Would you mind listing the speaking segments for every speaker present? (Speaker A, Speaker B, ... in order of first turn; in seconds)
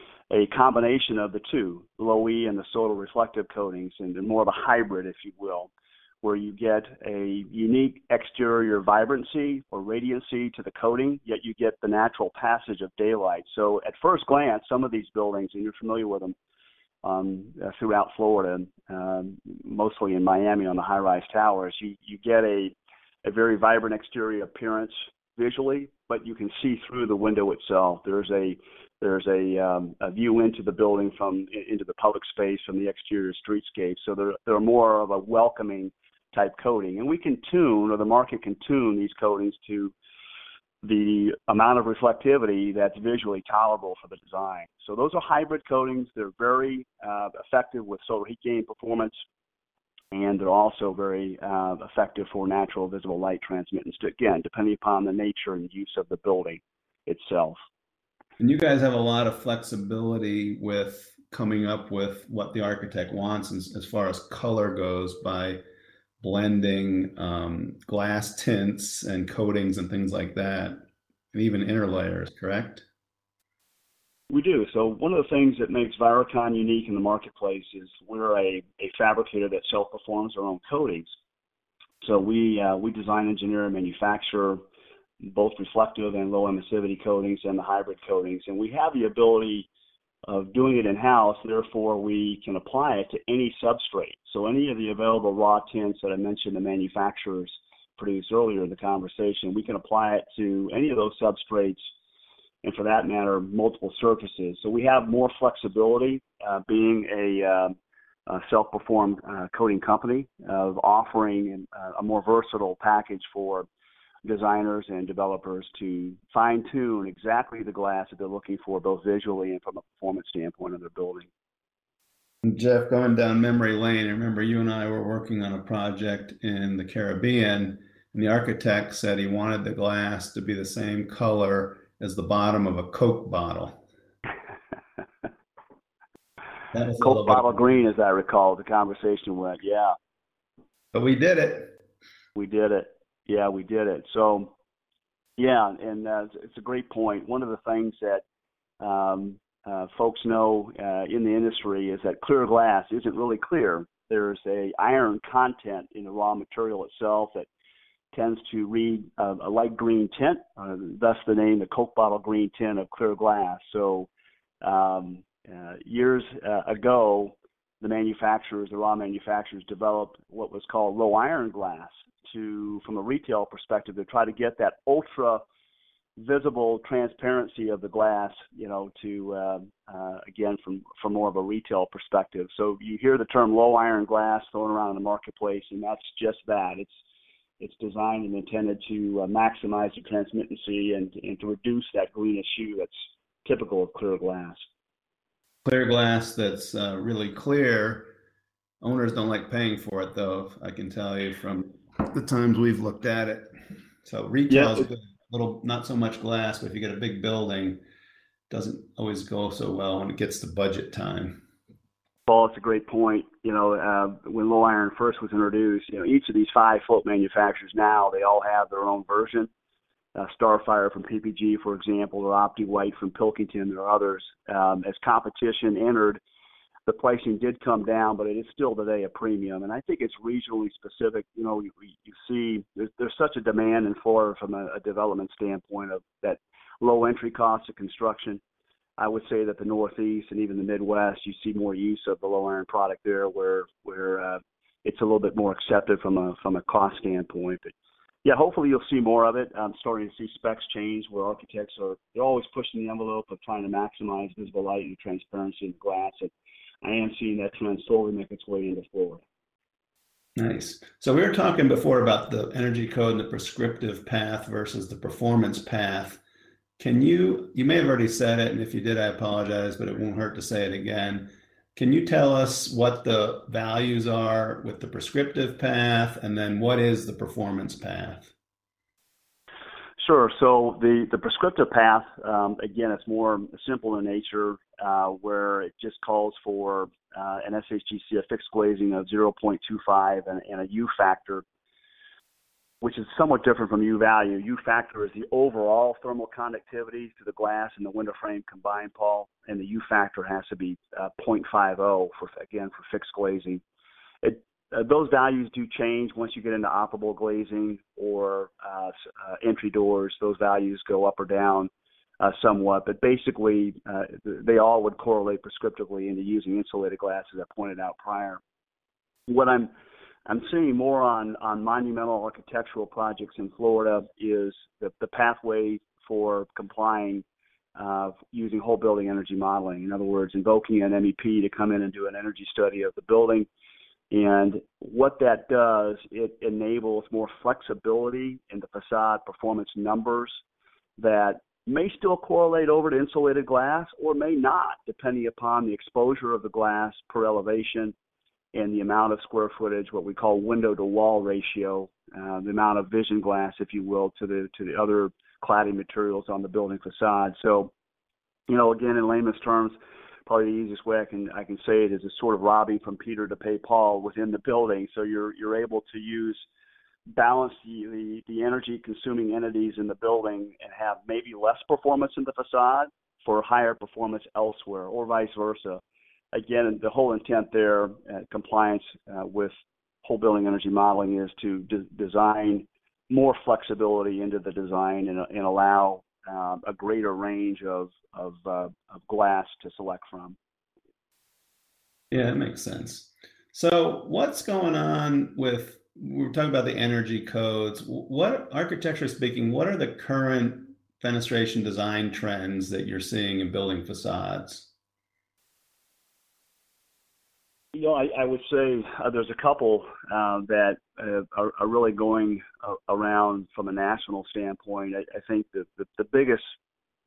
Speaker A: 0.3-5.7, 6.2-16.4, 17.0-40.0, 40.8-49.1, 50.1-57.6, 74.3-81.1, 82.0-84.6, 85.2-89.7, 90.3-101.8, 102.6-113.7, 114.2-121.3, 137.0-139.9, 142.3-144.5, 145.4-148.2, 148.8-157.5, 158.1-164.1, 164.6-175.4, 176.2-187.0, 187.6-194.7, 204.5-204.9, 212.3-219.5, 220.2-226.2, 226.9-238.4, 239.0-259.2, 280.0-291.4, 292.8-303.6, 304.2-318.4, 319.3-319.7, 320.3-327.2, 327.8-333.5, 334.1-340.4, 341.0-347.9, 348.5-357.7, 358.5-366.4, 367.1-375.8, 376.3-379.5, 380.0-390.4, 407.7-416.6
Speaker B: 58.4-65.6, 66.2-72.9, 122.4-133.8, 136.7-137.9, 140.9-141.8, 195.7-198.1, 198.8-207.8, 208.5-211.4, 260.4-266.2, 266.8-278.3, 392.1-404.7